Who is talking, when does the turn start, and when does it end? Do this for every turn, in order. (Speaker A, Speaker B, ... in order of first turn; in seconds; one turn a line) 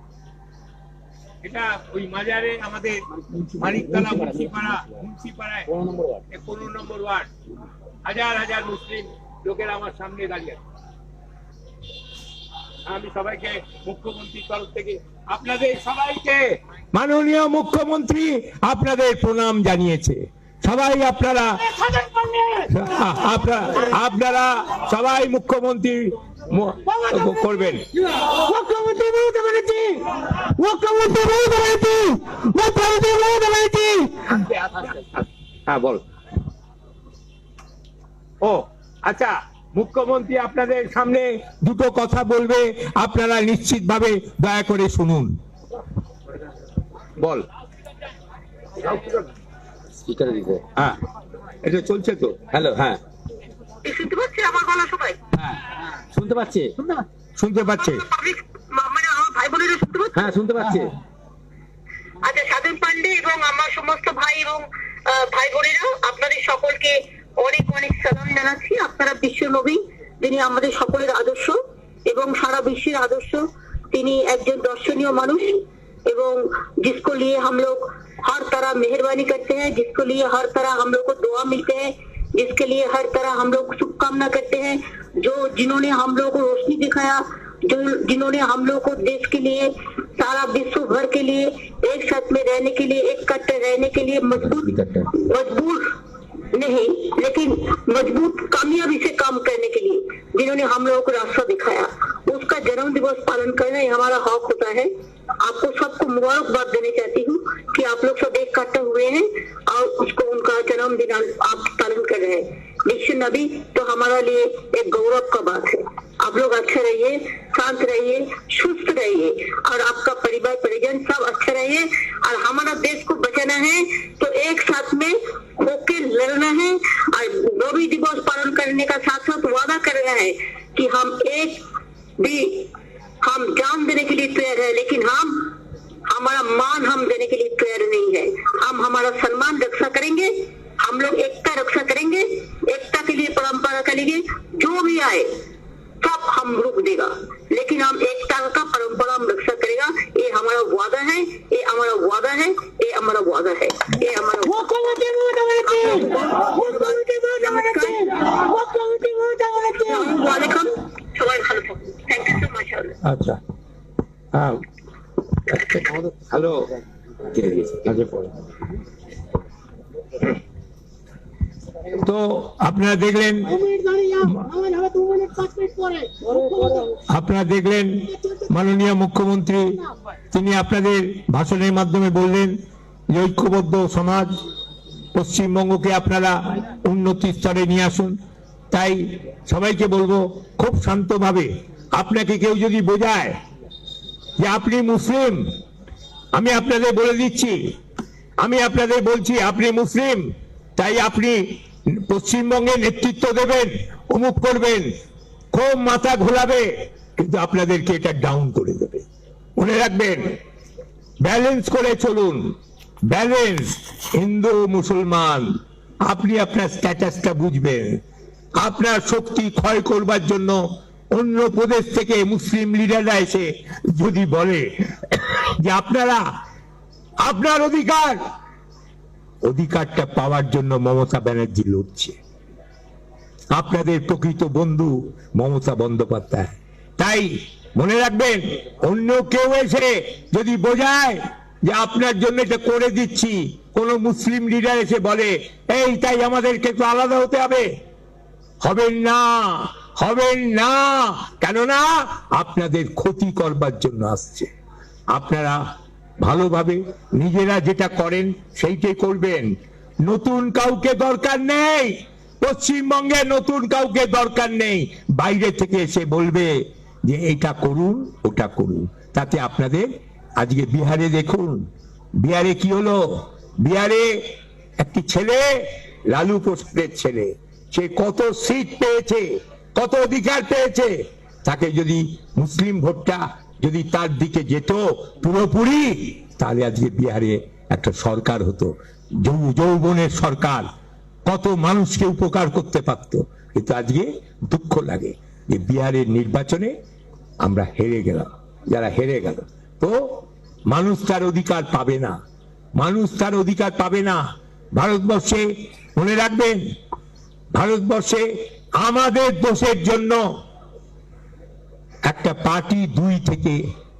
Speaker A: 1.4-3.0
Speaker A: 3.6-5.7
Speaker B: 3.6-4.8
Speaker B: 5.9-6.1
Speaker A: 6.3-7.3
Speaker A: 8.1-10.6
Speaker A: 12.9-21.6
Speaker C: 21.7-22.7
Speaker A: 22.7-27.8
Speaker C: 26.9-30.8
Speaker A: 30.6-34.9
Speaker A: 35.7-36.0
Speaker A: 38.4-45.4
Speaker A: 47.2-47.4
Speaker B: 50.0-50.6
Speaker A: 51.6-52.5
Speaker B: 52.5-53.0
Speaker D: 53.8-55.2
Speaker B: 56.1-56.7
Speaker A: 57.4-58.0
Speaker D: 57.8-60.3
Speaker B: 60.1-60.9
Speaker D: 62.2-95.9
Speaker D: 96.5-131.6
Speaker D: 132.2-135.5
Speaker D: 136.1-145.3
Speaker D: 146.0-154.8
Speaker C: 154.4-160.1
Speaker D: 155.7-158.3
Speaker D: 159.9-163.0
Speaker A: 163.0-163.4
Speaker A: 164.3-164.6
Speaker A: 165.5-166.6
Speaker A: 167.3-168.2
Speaker B: 167.5-167.8
Speaker A: 171.9-173.6
Speaker C: 173.5-177.0
Speaker A: 177.1-179.8
Speaker A: 180.3-182.5
Speaker A: 183.1-184.3
Speaker A: 185.1-188.2
Speaker A: 188.7-193.4
Speaker A: 194.4-195.5
Speaker A: 196.3-197.7
Speaker A: 198.4-204.9
Speaker A: 205.5-209.0
Speaker A: 209.6-210.4
Speaker A: 211.2-212.6
Speaker A: 213.1-218.0
Speaker A: 218.6-220.6
Speaker A: 221.1-226.2
Speaker A: 227.2-228.2
Speaker A: 229.4-232.2
Speaker A: 233.5-247.7
Speaker A: 248.6-254.5
Speaker A: 255.1-255.6
Speaker A: 256.2-259.5
Speaker A: 260.0-266.5
Speaker A: 267.1-271.6
Speaker A: 272.2-290.6
Speaker A: 291.2-296.7
Speaker A: 297.4-302.2
Speaker A: 302.7-304.2
Speaker A: 304.7-306.6
Speaker A: 307.5-310.2
Speaker A: 312.0-313.6